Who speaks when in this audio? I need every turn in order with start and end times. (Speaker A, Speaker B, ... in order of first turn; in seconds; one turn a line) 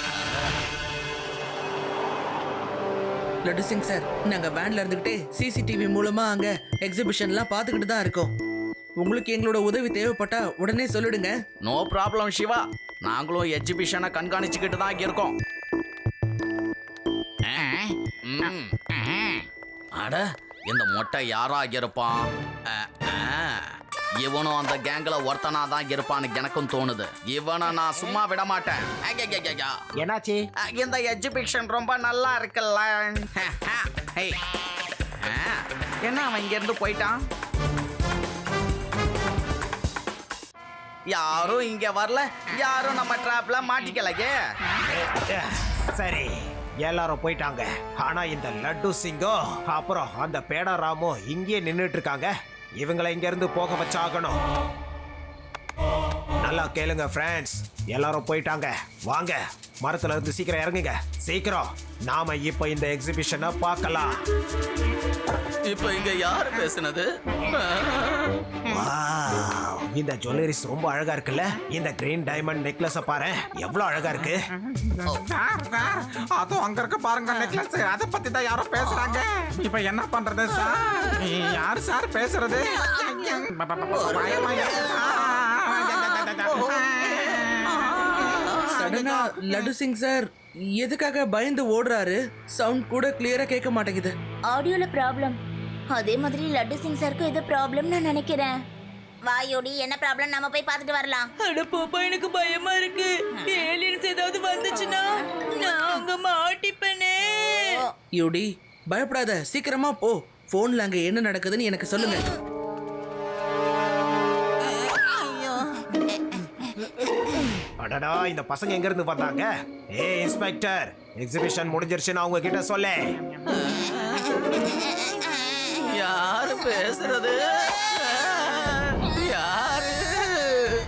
Speaker A: 3.4-8.3
Speaker A: 9.0-11.3
Speaker B: 11.6-15.3
Speaker B: 18.2-19.2
Speaker B: 20.0-23.6
Speaker B: 24.2-29.8
Speaker C: 30.0-30.4
Speaker B: 30.6-34.4
Speaker B: 35.2-37.1
Speaker B: 41.1-44.4
Speaker C: 44.8-54.4
Speaker C: 56.4-64.2
Speaker B: 65.7-67.0
Speaker C: 68.7-74.4
Speaker D: 74.8-87.7
Speaker E: 85.7-86.7
Speaker E: 88.2-88.7
Speaker A: 88.7-94.1
Speaker E: 94.5-95.4
Speaker E: 95.9-98.5
Speaker E: 99.2-101.3
Speaker F: 101.4-107.8
Speaker E: 103.4-103.7
Speaker A: 108.1-112.2
Speaker C: 117.8-123.1
Speaker B: 123.5-124.7
Speaker B: 125.8-130.7